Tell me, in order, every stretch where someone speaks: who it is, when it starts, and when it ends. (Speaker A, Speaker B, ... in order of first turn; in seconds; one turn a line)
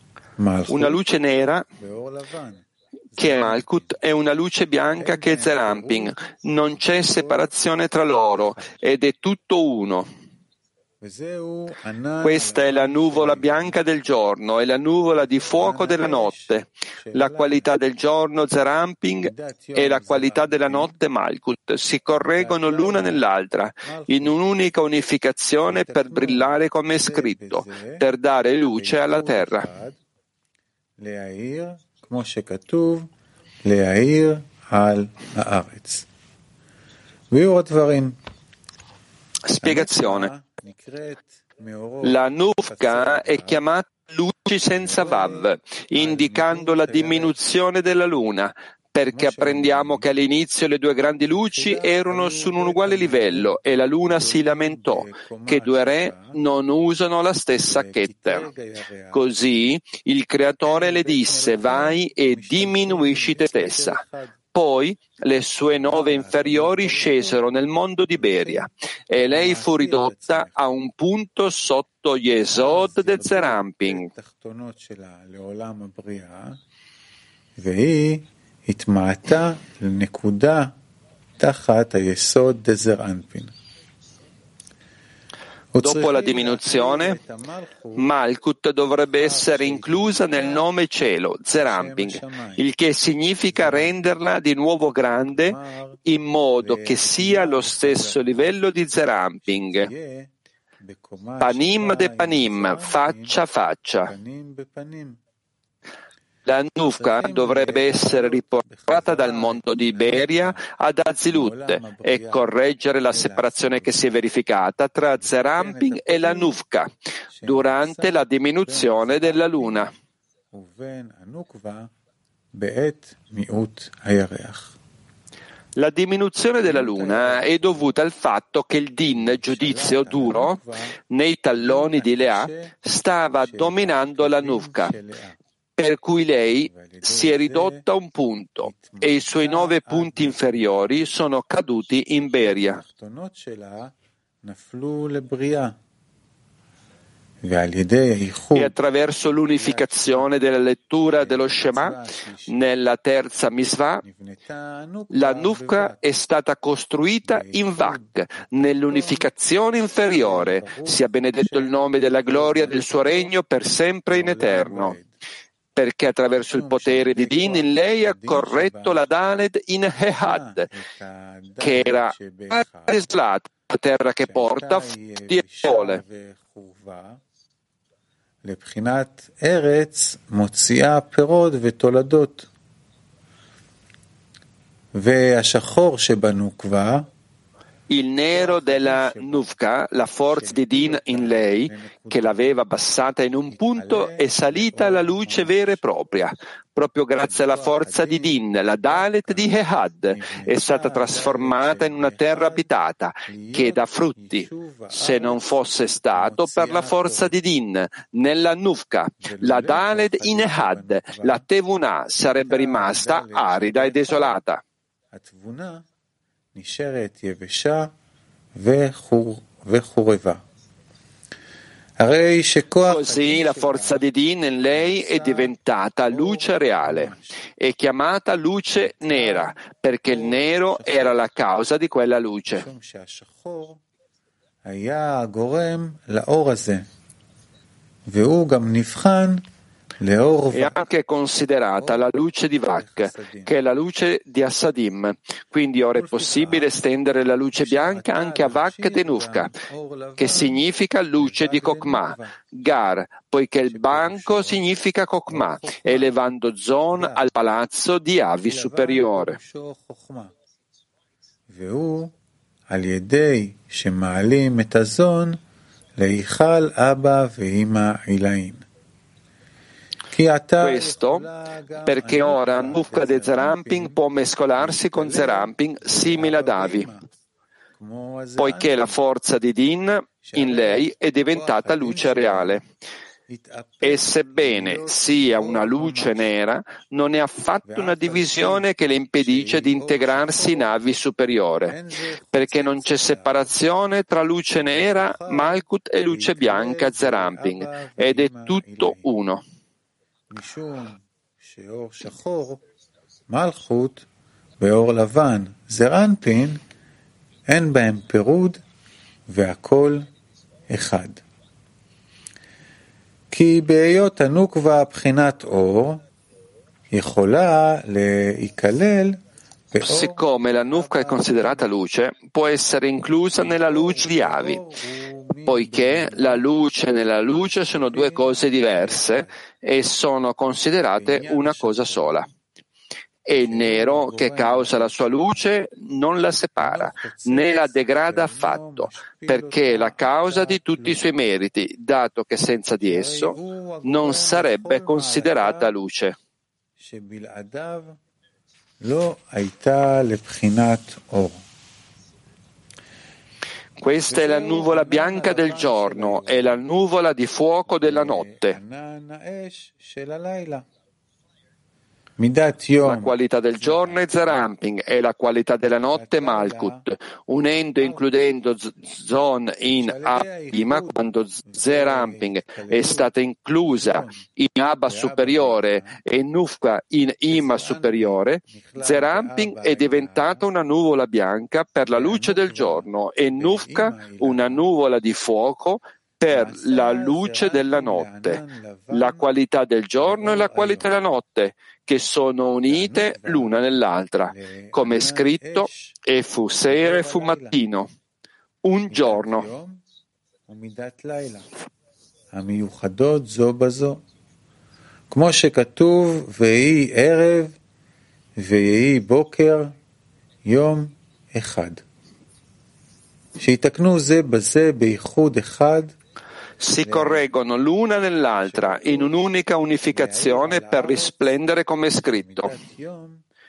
Speaker A: 0.4-1.0
Speaker B: 0.7-1.6
Speaker A: 1.8-4.0
Speaker B: 3.2-10.1
Speaker A: 5.0-7.6
Speaker A: 8.3-8.8
Speaker A: 11.0-13.8
Speaker B: 12.2-29.7
Speaker A: 15.5-17.7
Speaker A: 19.2-20.9
Speaker A: 22.1-23.2
Speaker A: 23.8-24.4
Speaker A: 25.6-28.0
Speaker A: 28.7-30.0
Speaker A: 31.0-33.1
Speaker A: 33.6-36.1
Speaker A: 37.3-38.1
Speaker B: 39.5-40.3
Speaker A: 39.6-43.6
Speaker B: 42.0-58.5
Speaker A: 44.7-47.4
Speaker A: 49.1-50.1
Speaker A: 51.5-56.4
Speaker A: 57.6-59.6
Speaker B: 59.1-64.0
Speaker A: 60.6-64.4
Speaker B: 64.5-74.1
Speaker A: 65.6-67.4
Speaker A: 68.1-68.7
Speaker A: 69.2-70.6
Speaker A: 72.5-76.6
Speaker A: 77.6-80.7
Speaker A: 81.4-83.5
Speaker A: 85.7-88.1
Speaker B: 85.8-87.2
Speaker B: 88.0-99.9
Speaker A: 89.1-90.7
Speaker A: 91.5-92.7
Speaker A: 93.5-94.0
Speaker A: 95.0-96.0
Speaker A: 96.6-98.6
Speaker A: 99.5-103.4
Speaker B: 101.4-104.1
Speaker A: 104.0-105.2
Speaker B: 106.5-116.9
Speaker A: 106.8-110.7
Speaker A: 111.3-112.5
Speaker A: 113.1-114.1
Speaker A: 115.2-116.6
Speaker A: 117.3-119.9
Speaker B: 117.5-119.9
Speaker A: 120.5-121.9
Speaker A: 122.5-124.8
Speaker B: 125.8-130.6
Speaker A: 126.6-127.9
Speaker A: 129.1-131.0
Speaker B: 131.1-135.0
Speaker A: 131.5-132.8
Speaker A: 133.4-135.4
Speaker B: 135.8-142.8
Speaker A: 136.7-137.8
Speaker A: 138.6-141.0
Speaker A: 142.4-145.8
Speaker A: 147.4-148.8
Speaker B: 148.5-151.9
Speaker A: 149.4-150.3
Speaker A: 151.1-152.6
Speaker B: 152.5-154.0
Speaker A: 154.0-156.2
Speaker B: 155.1-165.0
Speaker A: 157.2-159.3
Speaker A: 160.1-163.3
Speaker A: 164.1-165.1
Speaker B: 165.8-170.7
Speaker A: 166.5-169.0
Speaker A: 170.1-173.0
Speaker B: 171.6-176.0
Speaker A: 174.2-177.2
Speaker A: 178.4-182.5
Speaker A: 184.9-187.1
Speaker B: 187.9-214.6
Speaker A: 188.3-189.5
Speaker A: 190.3-192.5
Speaker A: 193.5-195.8
Speaker A: 197.2-199.5
Speaker A: 200.1-202.7
Speaker A: 203.2-205.6
Speaker A: 206.1-207.3
Speaker A: 209.2-211.4
Speaker A: 212.3-214.4
Speaker A: 215.1-215.8
Speaker A: 216.5-217.9
Speaker A: 218.5-220.4
Speaker A: 222.0-224.1
Speaker B: 222.8-232.6
Speaker A: 224.7-225.5
Speaker A: 226.1-227.3
Speaker A: 228.7-231.2
Speaker A: 232.5-233.8
Speaker A: 234.7-236.9
Speaker A: 238.1-239.4
Speaker A: 240.0-240.8
Speaker B: 240.5-249.5
Speaker A: 241.8-242.1
Speaker A: 242.7-243.5
Speaker A: 245.9-246.8
Speaker A: 247.5-252.4
Speaker B: 250.2-259.4
Speaker A: 253.7-254.7
Speaker A: 255.3-256.1
Speaker A: 256.9-257.2
Speaker A: 258.4-260.3
Speaker A: 261.5-262.1
Speaker A: 262.7-265.4
Speaker A: 266.0-268.6
Speaker A: 270.1-274.0
Speaker B: 270.6-271.3
Speaker B: 271.8-276.9
Speaker A: 274.6-277.1
Speaker A: 277.8-279.0
Speaker B: 278.4-282.6
Speaker A: 280.2-282.6
Speaker A: 283.3-286.3
Speaker B: 283.8-291.8
Speaker A: 287.6-290.8
Speaker A: 291.6-293.5
Speaker B: 292.3-299.4
Speaker A: 294.6-299.1
Speaker A: 300.3-302.6
Speaker A: 303.3-304.1
Speaker A: 304.6-306.6
Speaker A: 307.5-308.6
Speaker A: 309.3-310.1
Speaker A: 310.7-311.2
Speaker A: 313.3-316.0
Speaker A: 316.9-319.2
Speaker A: 319.7-321.7
Speaker B: 319.9-324.6
Speaker A: 323.3-326.5
Speaker B: 325.5-332.3
Speaker A: 327.3-329.4
Speaker A: 330.9-332.2
Speaker B: 333.2-346.2
Speaker A: 333.4-335.4
Speaker A: 336.6-341.1
Speaker A: 342.8-345.7
Speaker A: 346.8-348.0
Speaker A: 348.8-351.4
Speaker B: 353.8-358.6
Speaker A: 354.1-356.7
Speaker A: 357.6-360.6
Speaker A: 362.2-364.4
Speaker B: 362.8-388.4
Speaker A: 365.7-366.8
Speaker A: 369.6-374.2
Speaker A: 374.9-376.0
Speaker A: 377.3-380.5
Speaker A: 381.8-384.6
Speaker A: 386.3-389.3
Speaker B: 388.9-397.9
Speaker A: 389.9-390.9
Speaker A: 392.6-393.7
Speaker A: 394.2-396.0
Speaker A: 396.6-397.6
Speaker B: 398.6-399.4
Speaker A: 398.9-399.8
Speaker A: 400.5-401.5
Speaker A: 402.3-404.0
Speaker A: 405.1-407.6
Speaker A: 408.4-409.8
Speaker A: 410.4-411.8
Speaker A: 413.4-415.9
Speaker B: 416.6-422.5
Speaker A: 416.8-417.3
Speaker A: 418.3-419.2
Speaker A: 419.9-423.2